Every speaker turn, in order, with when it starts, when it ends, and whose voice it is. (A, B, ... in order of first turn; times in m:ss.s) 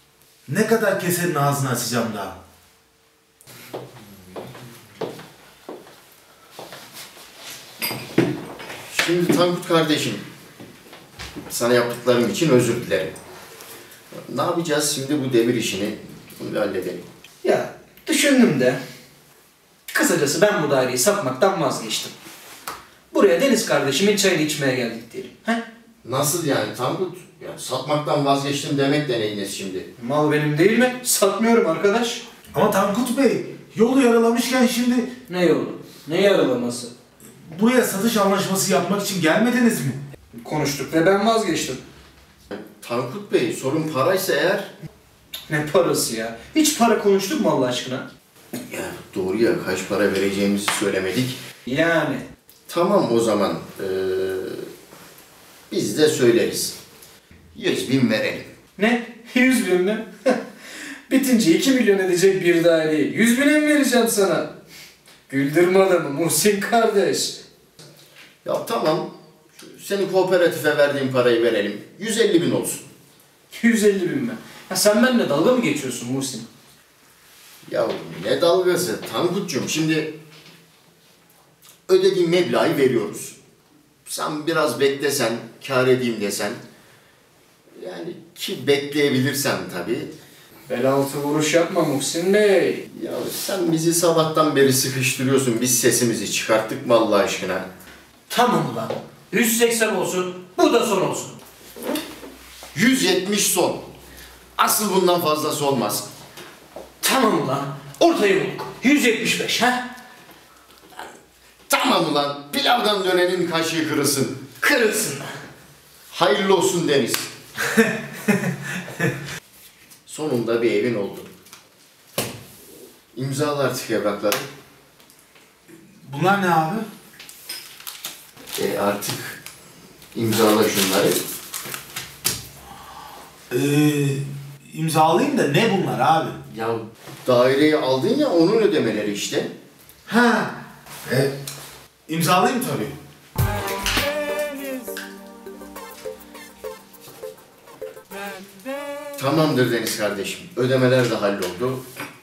0:00.5-0:02.4 A
0:08.9-0:10.2 B
0:11.5-0:13.1 B
0:14.2-0:17.0 B
0:17.4-0:18.8 C
0:19.9-0:22.1 C
0:23.1-0:25.6 C
0:26.0-0:29.9 B
0:30.0-0:32.2 C
0:32.5-0:35.1 A
0:35.3-0:36.9 C
0:37.5-0:40.0 A
0:40.4-0:41.8 C
0:42.5-0:44.7 B
0:45.5-0:48.1 C
0:48.7-0:51.4 B
0:51.6-0:52.3 C
0:52.7-0:54.7 B
0:55.7-0:56.8 B
0:57.6-0:58.5 B
0:58.8-1:00.4 C
1:01.1-1:04.5 C
1:05.3-1:07.4 C
1:08.4-1:12.9 B
1:13.5-1:16.5 C
1:17.7-1:20.2 B
1:21.9-1:23.4 B
1:24.1-1:26.6 B
1:27.8-1:30.1 B
1:30.7-1:32.9 C
1:32.9-1:37.7 B
1:38.3-1:41.4 C
1:42.7-1:43.9 B
1:44.6-1:46.1 B
1:47.0-1:49.9 C
1:51.7-1:55.3 B
1:56.1-1:57.3 B
2:00.1-2:01.3 B
2:03.1-2:04.5 B
2:06.0-2:06.9 A
2:08.6-2:09.4 B
2:10.1-2:11.2 B
2:13.5-2:16.4 A
2:16.5-2:19.6 B
2:20.1-2:20.5 A
2:21.1-2:21.3 A
2:22.1-2:23.0 A
2:29.2-2:31.8 B